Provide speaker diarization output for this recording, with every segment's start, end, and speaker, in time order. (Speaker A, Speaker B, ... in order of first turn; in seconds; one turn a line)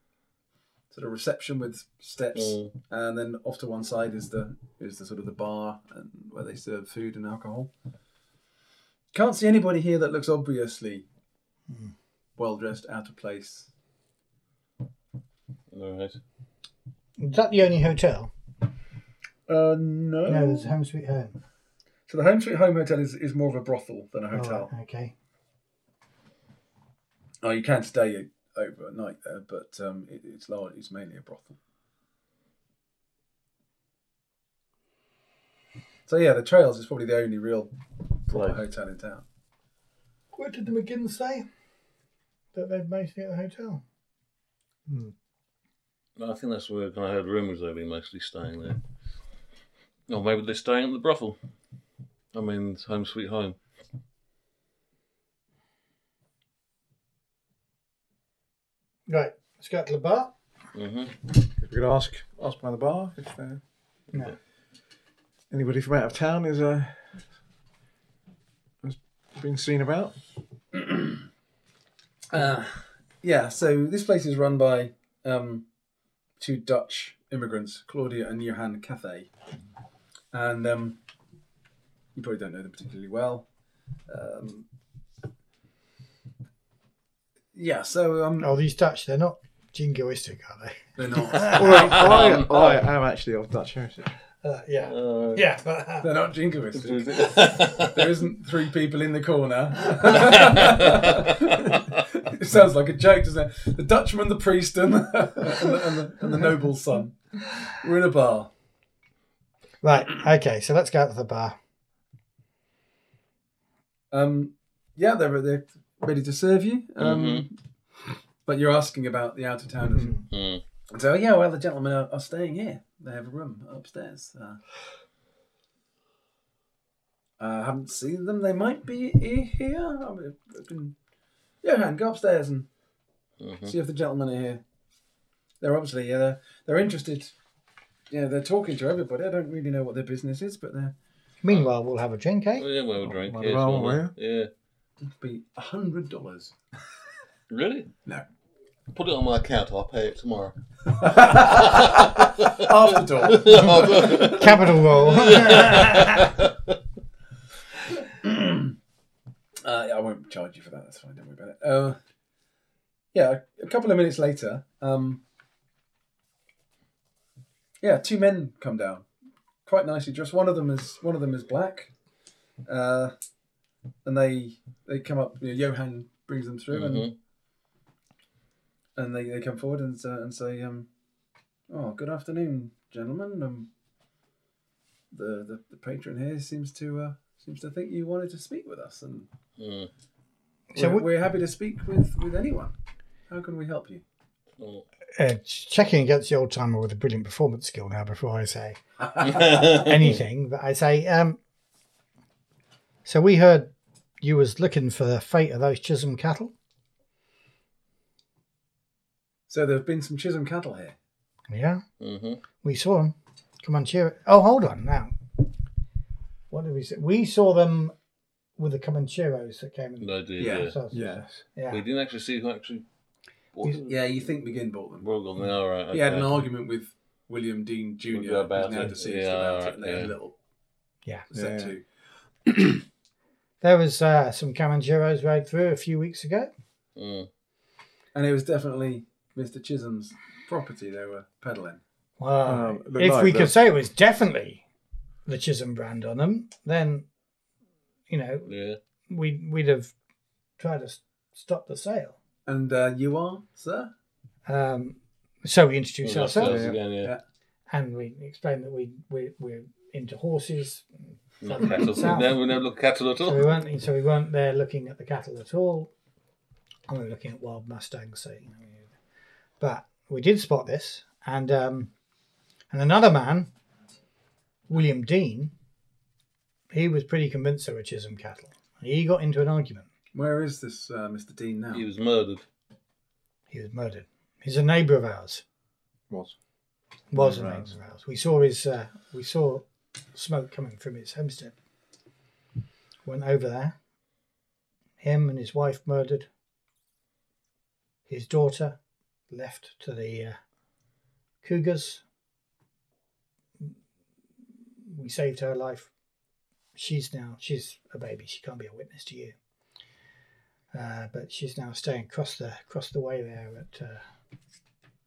Speaker A: 0.9-7.7
Speaker B: 2.4-2.7
Speaker A: 9.1-11.1
Speaker A: 12.4-13.7
Speaker B: 15.7-16.2
Speaker C: 17.2-18.3
Speaker A: 19.5-20.7
Speaker C: 20.3-21.4
Speaker A: 22.1-24.7
Speaker C: 24.3-25.1
Speaker A: 27.4-31.6
Speaker A: 36.1-37.7
Speaker A: 38.3-39.2
Speaker B: 38.3-38.6
Speaker C: 40.3-41.5
Speaker C: 42.5-43.8
Speaker D: 44.9-45.1
Speaker B: 46.2-48.8
Speaker B: 50.1-51.4
Speaker B: 52.3-53.6
Speaker C: 59.1-60.3
Speaker B: 60.8-61.1
Speaker D: 61.5-63.6
Speaker D: 65.5-67.2
Speaker D: 68.8-70.2
Speaker A: 70.8-71.2
Speaker A: 72.3-75.7
Speaker A: 76.4-79.3
Speaker A: 80.3-81.0
Speaker A: 82.2-83.5
Speaker A: 84.1-84.7
Speaker A: 87.5-88.5
Speaker C: 88.4-91.7
Speaker A: 91.0-92.5
Speaker D: 91.5-94.1
Speaker B: 91.8-92.7
Speaker C: 94.4-96.1
Speaker B: 94.8-95.5
Speaker A: 96.0-108.5
Speaker B: 96.8-97.9
Speaker B: 100.1-101.1
Speaker C: 109.8-111.6
Speaker A: 114.1-117.6
Speaker B: 117.0-117.5
Speaker A: 118.5-120.2
Speaker B: 120.3-120.6
Speaker A: 120.9-124.6
Speaker A: 127.4-130.9
Speaker A: 131.6-132.7
Speaker B: 133.4-133.7
Speaker A: 133.7-134.6
Speaker A: 135.6-137.3
Speaker A: 138.1-140.9
Speaker C: 141.4-142.7
Speaker B: 142.6-144.5
Speaker D: 143.0-144.1
Speaker A: 145.1-146.5
Speaker B: 147.5-147.9
Speaker B: 148.9-152.7
Speaker A: 151.0-155.7
Speaker B: 153.3-156.5
Speaker C: 154.0-156.2
Speaker A: 158.0-158.8
Speaker A: 159.6-162.0
Speaker A: 163.1-165.2
Speaker A: 167.8-169.1
Speaker A: 169.7-171.9
Speaker A: 172.7-173.1
Speaker A: 174.1-177.1
Speaker B: 176.7-177.1
Speaker A: 179.0-180.9
Speaker A: 181.7-183.7
Speaker A: 185.1-189.3
Speaker B: 189.6-189.9
Speaker C: 190.7-191.1
Speaker A: 190.8-192.7
Speaker A: 193.3-194.0
Speaker B: 194.6-194.8
Speaker C: 195.2-201.4
Speaker B: 199.3-200.0
Speaker C: 203.1-206.5
Speaker A: 209.5-211.0
Speaker C: 211.5-211.8
Speaker B: 212.0-212.4
Speaker C: 212.6-215.2
Speaker C: 216.5-217.9
Speaker C: 218.6-221.8
Speaker B: 220.0-220.7
Speaker A: 220.4-220.7
Speaker D: 220.9-221.4
Speaker B: 221.7-222.8
Speaker B: 223.5-224.0
Speaker A: 223.9-225.1
Speaker B: 225.0-226.5
Speaker A: 225.9-230.3
Speaker B: 228.1-230.2
Speaker D: 231.3-231.8
Speaker A: 231.3-231.8
Speaker C: 233.6-236.5
Speaker B: 237.0-237.3
Speaker A: 238.2-241.8
Speaker C: 242.2-244.6
Speaker D: 242.5-243.5
Speaker C: 245.3-247.1
Speaker C: 248.1-248.5
Speaker B: 248.5-248.8
Speaker C: 249.1-249.9
Speaker C: 250.6-252.2
Speaker A: 252.5-253.9
Speaker C: 254.5-256.6
Speaker B: 256.0-257.1
Speaker D: 256.4-256.8
Speaker C: 257.7-260.9
Speaker B: 261.4-263.5
Speaker C: 261.4-262.4
Speaker C: 263.2-265.9
Speaker C: 266.9-268.9
Speaker C: 269.6-271.9
Speaker C: 272.7-273.5
Speaker C: 274.7-275.5
Speaker C: 276.7-279.9
Speaker A: 280.1-281.9
Speaker B: 281.7-282.4
Speaker C: 283.5-285.4
Speaker D: 286.1-286.4
Speaker C: 287.1-291.6
Speaker D: 287.1-287.8
Speaker C: 293.1-293.8
Speaker C: 295.0-296.3
Speaker C: 298.1-298.8
Speaker C: 299.3-300.4
Speaker C: 301.4-302.0
Speaker C: 304.9-305.9
Speaker C: 306.8-309.4
Speaker C: 310.7-314.0